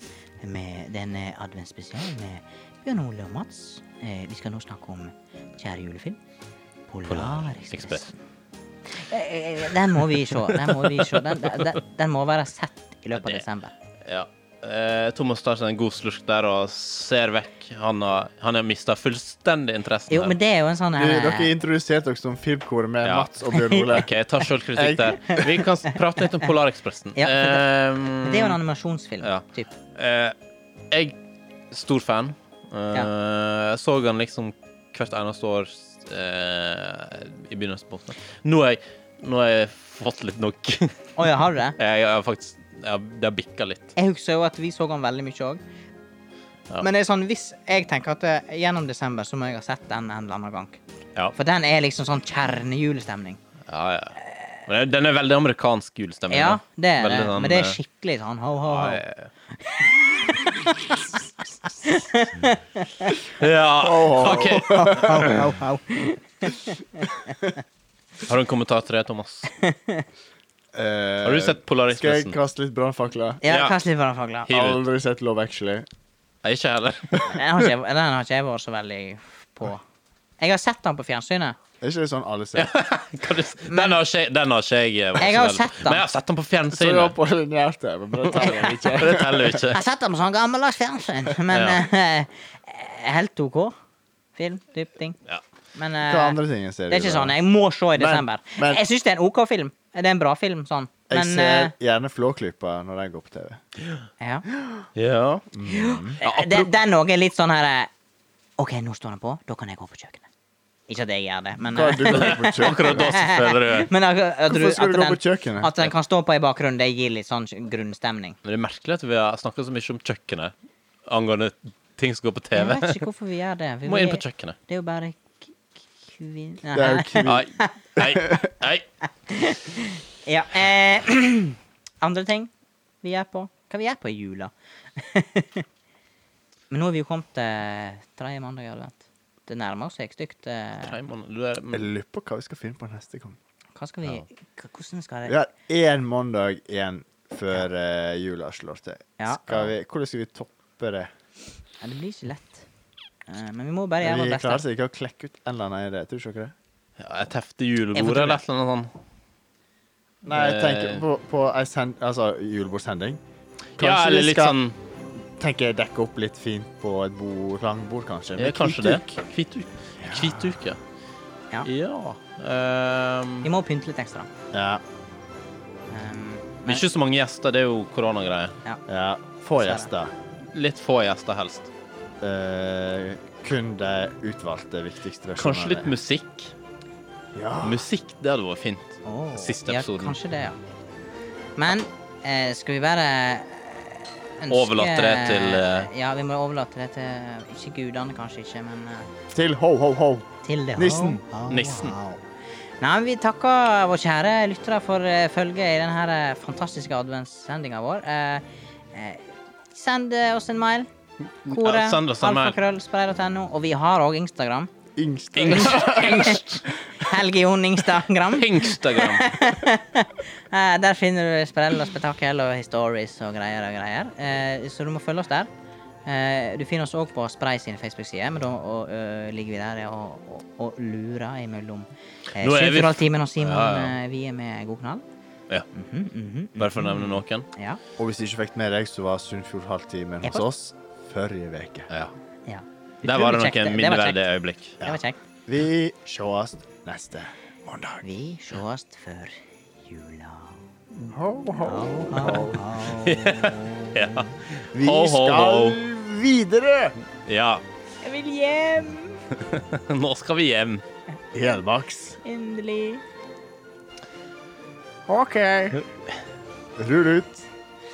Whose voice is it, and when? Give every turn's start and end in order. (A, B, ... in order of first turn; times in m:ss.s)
0:00.4-0:06.2 A
0:06.9-0:08.2 A
0:07.1-0:08.0 B
0:08.9-0:13.7 A
0:10.0-0:11.7 B
0:13.2-0:13.4 B
0:14.0-0:20.4 B
0:20.1-0:21.5 A
0:21.0-0:24.1 C
0:23.0-0:28.6 B
0:24.8-0:25.2 C
0:27.2-0:29.7 A
0:29.2-0:30.3 B
0:31.7-0:41.1 B
0:41.2-0:41.8 A
0:41.8-0:43.9 B
0:44.0-0:45.6 A
0:46.8-0:50.8 A
0:51.3-0:53.4 A
0:53.7-0:57.8 B
0:56.3-0:59.0 A
0:58.7-0:59.3 B
0:59.6-1:01.2 A
1:01.7-1:03.1 A
1:03.4-1:05.3 B
1:03.8-1:05.5 C
1:04.2-1:07.6 A
1:08.2-1:09.5 B
1:09.5-1:10.0 A
1:10.7-1:13.4 C
1:11.2-1:12.4 B
1:13.4-1:14.5 A
1:13.5-1:13.8 B
1:14.5-1:14.8 B
1:14.5-1:15.8 C
1:16.4-1:17.5 B
1:17.2-1:19.8 A
1:20.4-1:21.6 A
1:21.8-1:22.7 C
1:22.5-1:27.1 B
1:23.7-1:24.0 A
1:25.2-1:26.0 A
1:26.7-1:29.6 C
1:28.9-1:29.8 B
1:29.7-1:33.8 A
1:31.5-1:31.8 B
1:34.4-1:35.2 A
1:35.7-1:41.7 A
1:36.1-1:37.4 C
1:38.0-1:38.8 C
1:41.1-1:43.6 C
1:44.2-1:44.4 A
1:44.6-1:44.8 C
1:45.0-1:45.5 B
1:45.5-1:46.2 C
1:45.7-1:47.9 A
1:46.2-1:46.7 B
1:48.6-1:50.3 A
1:50.9-1:58.4 A
1:51.7-1:53.0 C
1:52.1-1:53.9 B
1:54.5-1:55.7 C
1:58.4-2:00.5 B
2:01.1-2:03.0 B
2:02.5-2:07.7 A
2:03.8-2:04.6 B
2:06.7-2:07.4 C
2:07.2-2:08.8 B
2:08.0-2:08.4 C
2:09.3-2:12.5 A
2:13.0-2:15.6 A
2:16.7-2:20.9 A
2:20.8-2:21.9 B
2:21.7-2:23.4 C
2:23.8-2:25.3 A
2:25.3-2:31.1 C
2:29.2-2:29.4 A
2:31.8-2:32.6 A
2:33.3-2:34.6 A
2:34.0-2:36.5 C
2:37.0-2:38.9 B
2:37.9-2:38.4 A
2:40.2-2:41.0 B
2:40.2-2:43.2 C
2:43.8-2:44.6 C
2:43.8-2:44.8 B
2:45.4-2:49.0 C
2:48.4-2:50.8 B
2:50.0-2:50.5 C
2:51.6-2:53.5 B
2:53.4-2:54.3 A
2:54.5-2:54.8 C
2:55.9-2:56.8 A
2:56.7-2:58.6 B
2:58.9-3:00.1 C
2:59.6-2:59.9 A
3:00.5-3:01.7 B
3:02.2-3:05.9 C
3:05.4-3:06.5 B
3:07.3-3:07.9 C
3:07.6-3:10.2 B
3:09.0-3:10.6 A
3:11.6-3:19.1 A
3:14.5-3:15.9 B
3:19.3-3:21.2 C
3:20.4-3:22.2 A
3:21.5-3:22.0 B
3:22.8-3:30.9 A
3:31.4-3:34.7 A
3:31.5-3:32.6 B
3:35.0-3:36.5 C
3:35.3-3:36.7 B
3:35.5-3:45.5 A
3:38.2-3:39.3 B
3:46.0-3:55.0 A
3:52.4-3:54.0 B
3:55.7-3:57.8 A
3:56.6-3:57.5 B
3:58.0-4:01.9 C
4:02.5-4:04.2 A
4:03.0-4:04.8 B
4:04.8-4:05.2 A
4:04.8-4:08.0 C
4:08.0-4:10.6 A
4:11.1-4:12.8 C
4:11.6-4:13.9 A
4:12.9-4:15.8 B
4:14.7-4:17.0 C
4:17.2-4:17.6 B
4:18.0-4:19.2 A
4:19.3-4:20.8 B
4:21.3-4:22.2 C
4:22.2-4:23.0 A
4:25.1-4:25.8 C
4:26.8-4:27.4 C